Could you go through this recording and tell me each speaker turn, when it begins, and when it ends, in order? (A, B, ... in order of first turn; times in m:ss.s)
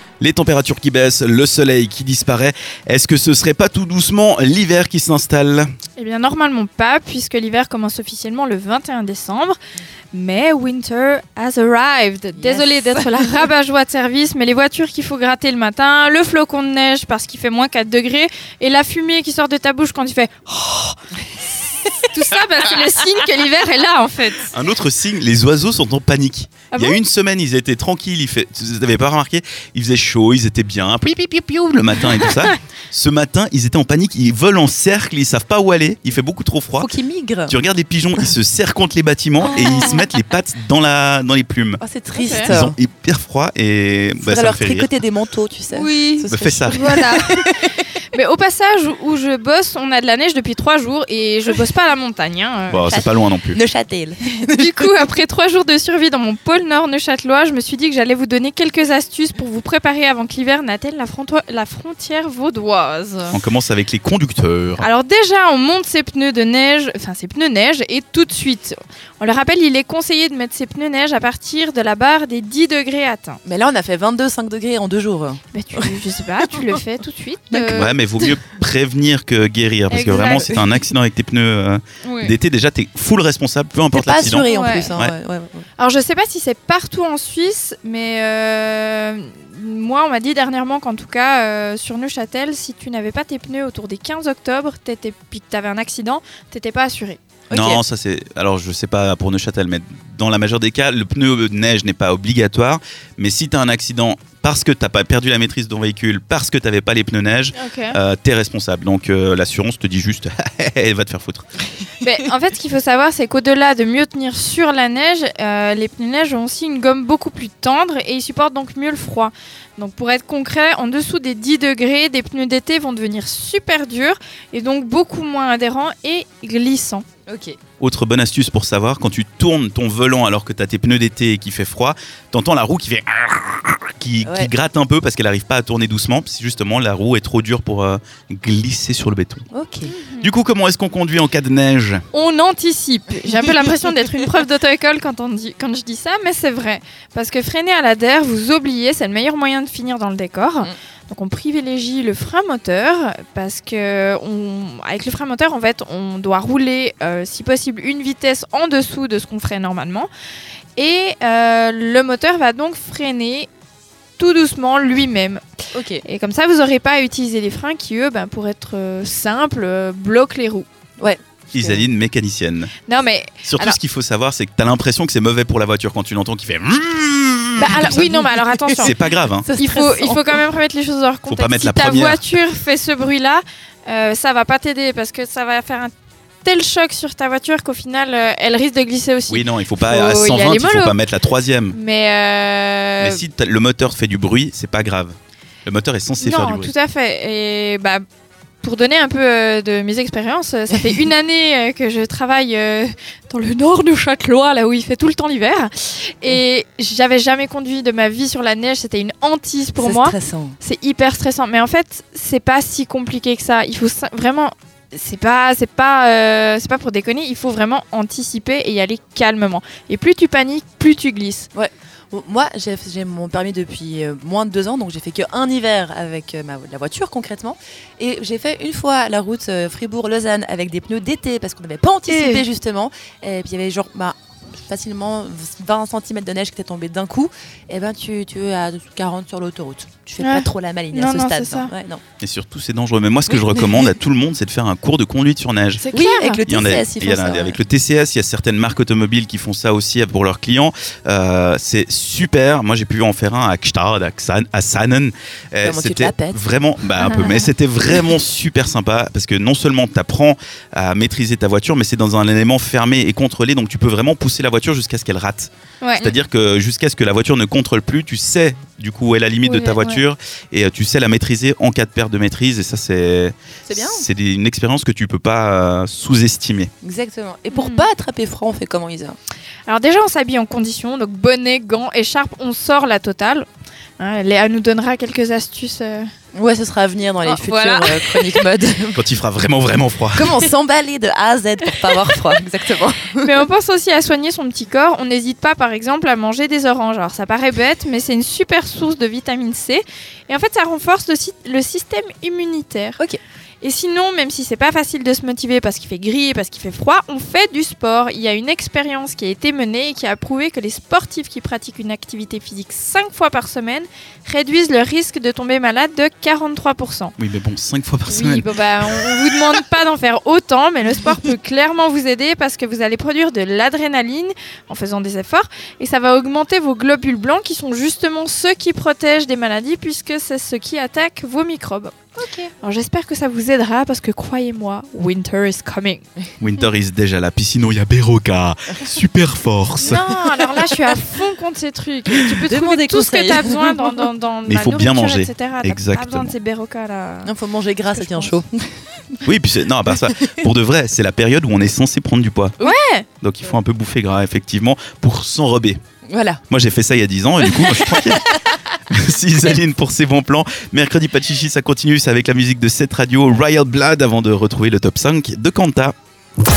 0:00.2-0:05.7 A
0:06.0-0:09.6 B
0:10.1-0:24.5 B
0:12.4-0:13.4 C
0:24.5-0:36.9 A
0:26.7-0:27.0 B
0:36.8-0:37.5 C
0:37.5-0:41.8 A
0:39.4-0:40.0 B
0:39.5-0:39.9 C
0:41.8-0:42.7 C
0:42.2-0:42.5 B
0:42.4-0:44.9 A
0:44.2-0:47.7 C
0:45.7-0:47.5 B
0:46.3-0:46.9 A
0:48.1-0:53.0 B
0:52.7-0:53.6 A
0:52.9-0:55.0 C
0:54.5-1:03.4 B
1:03.3-1:04.9 A
1:04.8-1:13.4 B
1:13.4-1:16.8 C
1:15.5-1:17.9 B
1:17.5-1:18.4 C
1:17.7-1:25.1 A
1:19.9-1:20.6 B
1:20.0-1:20.6 C
1:22.0-1:22.3 B
1:23.9-1:25.6 C
1:24.5-1:24.9 B
1:25.8-1:37.2 B
1:37.5-1:37.8 C
1:37.5-1:51.4 A
1:47.6-1:48.0 B
1:52.0-2:07.0 B
2:07.3-2:07.6 C
2:07.8-2:19.4 A
2:14.2-2:14.5 C
2:19.5-2:20.0 C
2:19.9-2:20.3 B
2:20.2-2:22.0 A
2:22.1-2:40.1 B
2:40.8-2:43.5 B
2:44.2-2:45.4 B
2:45.7-2:46.0 C
2:46.0-2:50.7 B
2:51.0-2:51.9 C
2:51.5-2:52.7 A
2:52.8-2:53.8 B
2:53.4-2:58.0 A
2:57.6-2:59.0 B
2:57.6-3:00.4 C
2:58.8-2:59.5 A
2:59.6-3:05.9 B
3:01.3-3:02.2 A
3:06.4-3:11.0 B
3:09.3-3:11.8 A
3:11.7-3:13.2 B
3:13.0-3:16.7 A
3:16.2-3:18.0 B
3:18.6-3:41.5 B
3:29.8-3:30.6 C
3:41.5-4:02.0 C
3:52.1-3:52.4 B
4:00.2-4:01.7 B
4:02.2-4:05.8 A
4:05.8-4:06.4 B
4:05.9-4:07.6 C
4:06.4-4:36.7 A
4:15.6-4:16.4 C
4:25.8-4:26.2 B
4:29.4-4:30.0 B
4:33.6-4:34.0 C
4:36.8-4:39.2 C
4:37.5-4:37.9 B
4:39.7-4:43.5 B
4:44.0-4:46.1 B
4:46.3-4:49.0 C
4:47.2-4:48.4 B
4:48.9-4:50.4 A
4:50.1-4:53.4 C
4:51.8-4:52.1 B
4:53.2-5:03.0 B
5:03.6-5:17.1 B
5:17.2-5:19.2 A
5:18.1-5:31.9 B
5:32.2-5:32.5 C
5:32.6-5:36.0 B
5:36.4-5:40.2 A
5:39.8-5:47.3 B
5:42.2-5:44.0 C
5:44.4-5:46.3 A
5:47.2-5:49.2 C
5:47.9-5:48.4 B
5:49.2-5:52.5 A
5:50.0-5:50.4 C
5:52.6-5:53.0 B
5:53.2-5:55.8 A
5:56.1-5:56.4 C
5:56.5-5:58.4 A
5:58.9-6:05.9 A